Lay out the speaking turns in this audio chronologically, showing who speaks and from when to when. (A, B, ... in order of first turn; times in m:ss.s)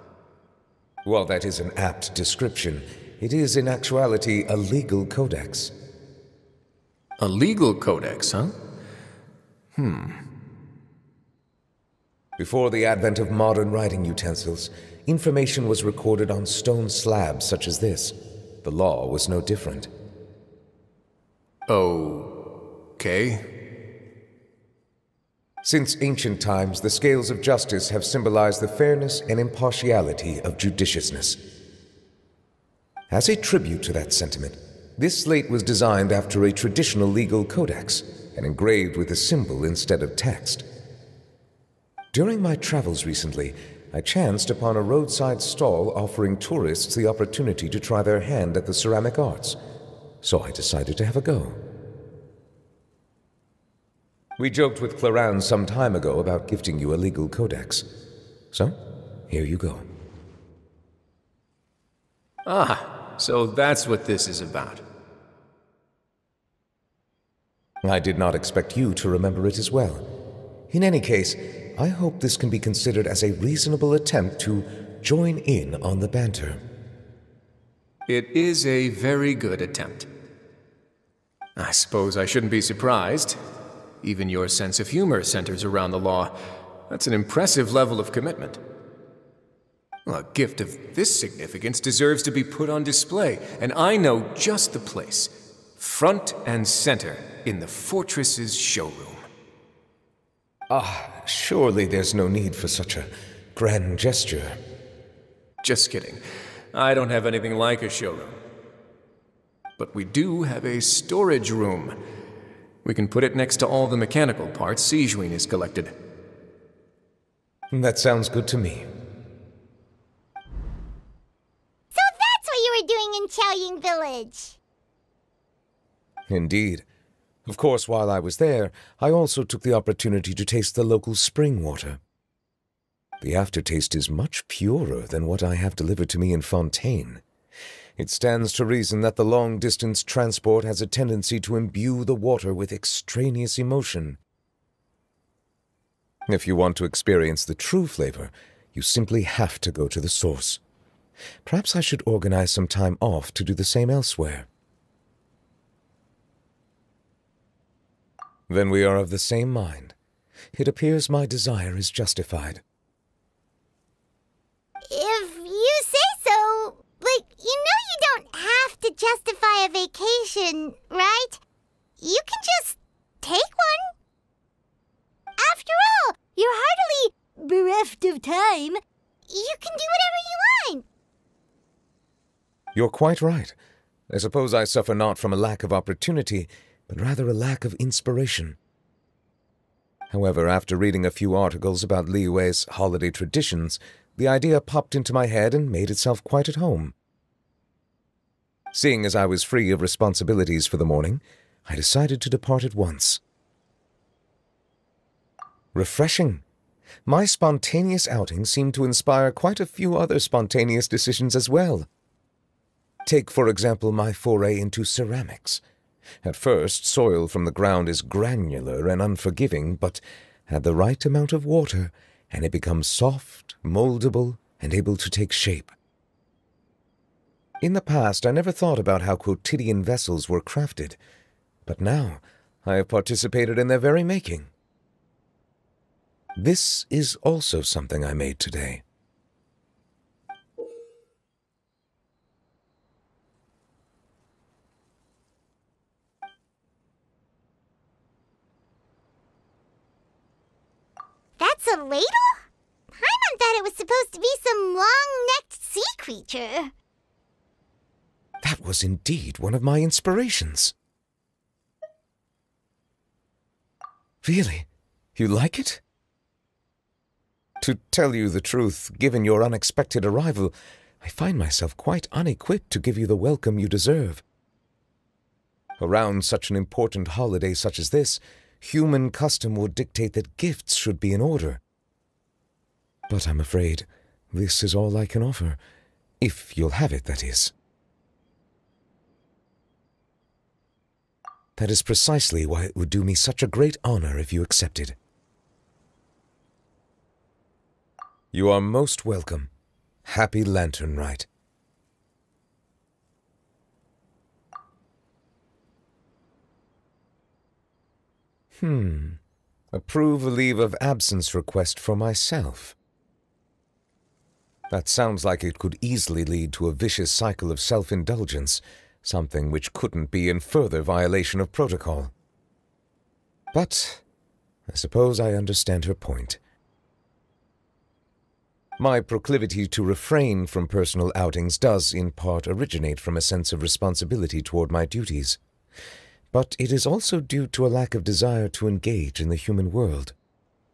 0:01.0-0:05.7 A
0:07.2-0:08.6 B
0:09.8-0:10.2 B
0:12.4-0:19.9 A
0:21.7-0:22.3 B
0:23.0-0:23.4 B
0:25.6-0:31.4 A
0:33.1-0:40.7 A
0:42.1-0:49.6 A
0:50.2-0:51.6 A
0:54.4-0:57.9 A
0:59.3-0:59.9 A
1:02.5-1:04.8 B
1:07.8-1:10.0 A
1:10.7-1:16.6 A
1:18.1-1:20.1 B
1:21.6-1:23.4 B
1:24.0-1:26.3 B
1:26.9-1:28.6 B
1:30.1-1:39.2 B
1:40.7-1:44.6 A
1:45.6-1:46.2 B
1:46.7-1:48.4 B
1:49.8-1:52.0 B
1:52.8-1:55.9 B
1:57.7-1:58.9 A
2:01.9-2:04.6 C
2:06.3-2:06.8 A
2:07.5-2:12.0 A
2:13.2-2:17.2 A
2:18.0-2:24.2 A
2:26.3-2:30.6 A
2:31.4-2:34.5 A
2:38.5-2:40.0 A
2:40.5-2:42.6 A
2:44.9-2:51.4 C
2:52.0-2:53.9 C
2:55.4-3:00.9 C
3:02.8-3:03.6 A
3:04.1-3:08.6 A
3:10.1-3:17.0 A
3:18.7-3:23.2 A
3:25.8-3:26.4 A
3:27.1-3:31.9 A
3:33.1-3:35.6 A
3:36.2-3:45.7 A
3:47.6-3:51.0 A
3:51.7-3:54.5 A
3:56.4-3:58.8 A
4:11.4-4:12.4 C
4:12.9-4:16.7 C
4:18.4-4:20.7 A
4:24.2-4:25.8 A
4:27.6-4:34.2 A
4:35.8-4:41.6 A
4:43.1-4:45.6 A
4:46.2-4:47.5 A
4:51.6-4:55.0 A
4:58.3-4:59.5 A
5:00.0-5:01.3 A
5:08.6-5:09.2 A
5:09.7-5:12.8 A
5:14.7-5:22.1 A
5:23.5-5:24.0 A
5:24.7-5:26.4 A
5:28.8-5:35.4 A
5:36.3-5:40.2 A